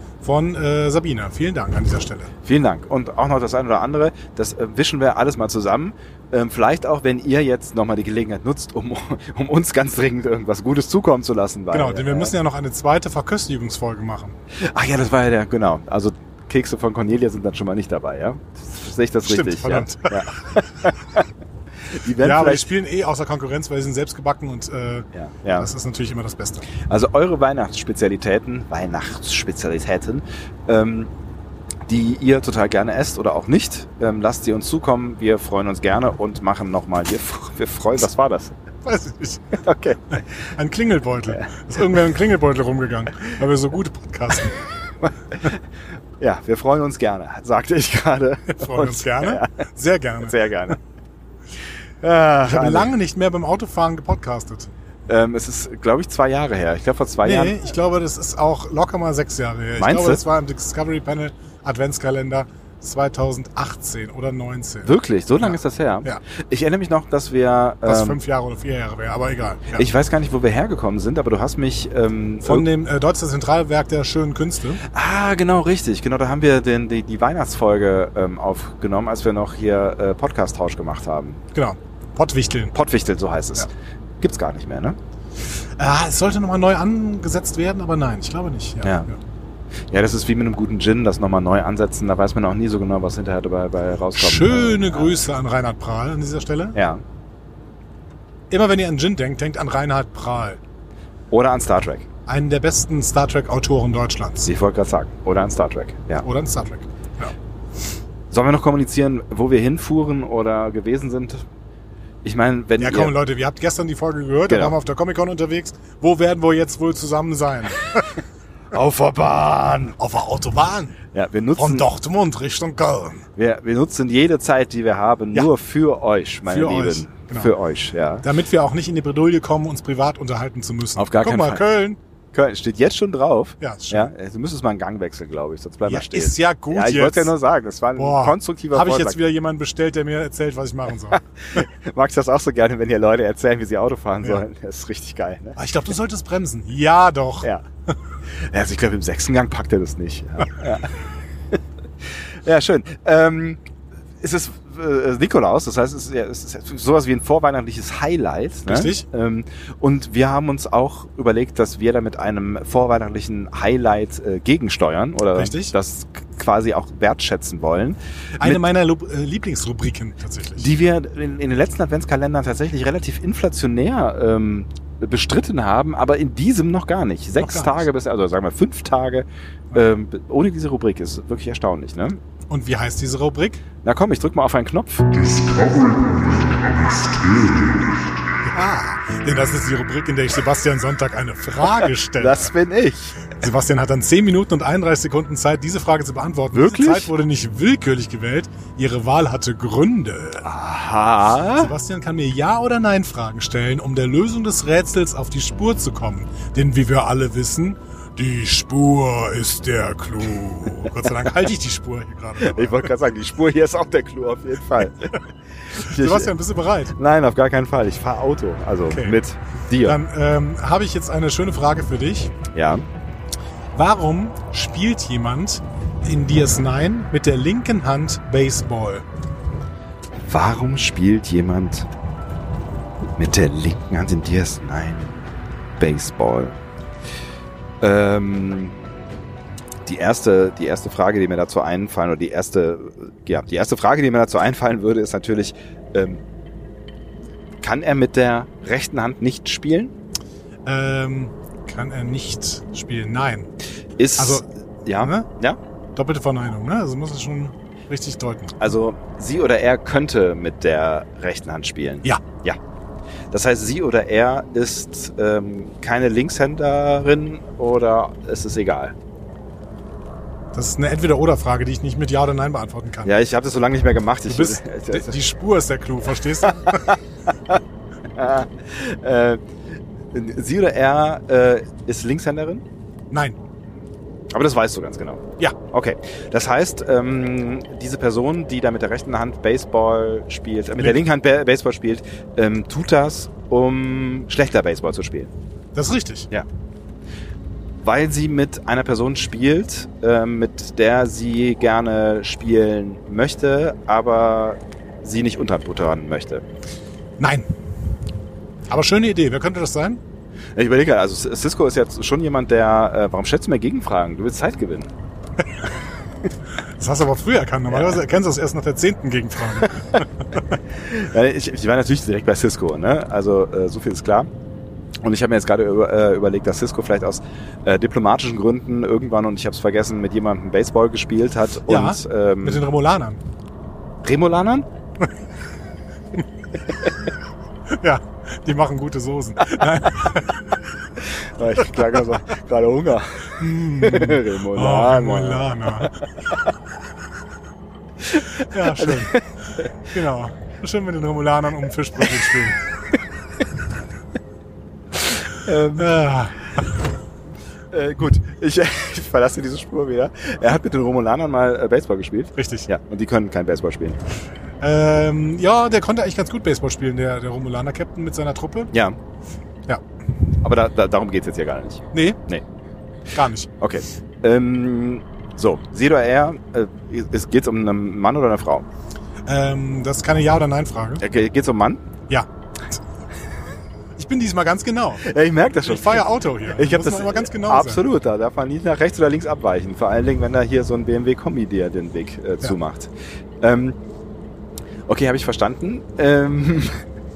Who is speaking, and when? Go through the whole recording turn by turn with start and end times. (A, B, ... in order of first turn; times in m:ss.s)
0:00.2-0:02.3 A
0:02.4-0:12.4 B
0:11.7-0:14.4 A
0:14.6-0:21.2 B
0:19.2-0:20.3 A
0:21.9-0:22.7 B
0:22.2-0:26.6 A
0:25.1-0:25.7 B
0:26.7-0:31.1 B
0:31.9-0:38.6 B
0:38.8-0:39.6 A
0:39.5-0:40.4 B
0:40.5-0:44.6 A
0:41.3-0:41.8 B
0:45.0-0:45.6 B
0:46.2-0:49.5 B
0:48.6-0:50.4 A
0:50.2-0:50.8 B
0:52.0-0:52.9 B
0:52.4-0:54.7 A
0:55.1-0:57.6 B
0:57.2-1:06.2 A
0:59.8-1:00.2 B
1:04.8-1:08.2 B
1:07.8-1:09.8 A
1:09.7-1:12.7 B
1:12.4-1:14.8 A
1:14.8-1:21.4 B
1:21.5-1:22.7 A
1:22.7-1:25.0 B
1:25.8-1:29.2 A
1:28.8-1:29.1 B
1:29.9-1:35.3 B
1:34.1-1:36.8 A
1:36.7-1:37.0 B
1:38.5-1:40.6 A
1:41.3-1:42.1 B
1:42.3-1:44.5 A
1:44.4-1:46.3 B
1:46.2-1:47.3 A
1:48.3-1:51.4 B
1:52.2-1:53.2 B
1:52.8-1:58.0 A
1:54.5-1:54.8 B
1:58.7-2:00.0 B
2:00.0-2:01.0 A
2:01.1-2:01.9 B
2:01.5-2:03.2 A
2:03.3-2:08.3 B
2:06.5-2:07.5 A
2:08.2-2:12.0 A
2:11.0-2:11.6 B
2:12.3-2:19.2 B
2:13.6-2:14.1 A
2:15.8-2:17.3 A
2:18.0-2:21.6 A
2:21.1-2:25.6 B
2:25.6-2:27.5 A
2:28.2-2:31.2 B
2:32.4-2:33.6 B
2:34.2-2:48.7 B
2:38.7-2:39.0 A
2:45.3-2:45.7 A
2:48.4-2:50.7 A
2:50.6-3:02.2 B
2:57.4-2:57.8 A
3:02.5-3:03.6 A
3:03.8-3:05.3 B
3:05.3-3:06.0 A
3:06.3-3:07.9 B
3:08.4-3:12.5 A
3:12.2-3:13.3 B
3:13.3-3:20.5 A
3:16.5-3:17.1 B
3:20.4-3:21.7 B
3:21.6-3:32.9 A
3:32.4-3:35.2 B
3:35.7-3:36.3 B
3:35.9-3:36.9 A
3:36.9-3:40.0 B
3:38.9-3:39.2 A
3:39.8-3:42.3 A
3:42.5-3:42.8 B
3:43.7-3:49.0 A
3:50.2-3:51.9 B
3:53.2-3:55.2 B
3:55.8-3:56.5 B
3:57.8-3:58.7 B
3:59.8-4:06.2 B
4:07.6-4:09.9 B
4:10.6-4:13.5 A
4:14.0-4:15.6 B
4:14.2-4:15.3 A
4:16.0-4:18.5 A
4:18.6-4:22.6 B
4:23.3-4:28.9 B
4:30.5-4:33.1 A
4:33.0-4:35.2 B
4:34.3-4:37.0 A
4:36.4-4:37.0 B
4:38.1-4:39.4 B
4:40.1-4:42.6 B
4:43.1-4:43.4 A
4:44.3-4:55.3 B
4:55.7-4:56.3 A
4:57.8-5:06.4 B
5:07.2-5:07.5 A
5:08.7-5:10.0 A
5:10.6-5:14.9 B
5:16.8-5:20.0 A
5:17.7-5:18.0 B
5:20.7-5:24.3 B
5:25.0-5:32.6 B
5:31.7-5:33.2 A
5:34.0-5:34.7 B
5:37.7-5:40.6 A
5:41.0-5:46.5 B
5:43.4-5:45.9 A
5:48.1-5:49.7 B
5:48.4-5:49.2 A
5:49.8-5:52.6 A
5:55.3-5:56.0 B
5:55.8-5:56.4 A
5:57.7-6:04.0 B
6:02.4-6:02.7 A
6:04.6-6:08.7 A
6:08.7-6:09.0 B
6:10.4-6:12.4 B
6:11.9-6:12.2 A
6:13.1-6:13.5 A
6:13.6-6:18.6 B
6:19.3-6:21.0 A
6:21.0-6:21.9 B
6:22.1-6:22.8 A
6:24.0-6:25.0 A
6:25.0-6:33.8 B
6:25.6-6:27.8 A
6:34.9-6:36.8 B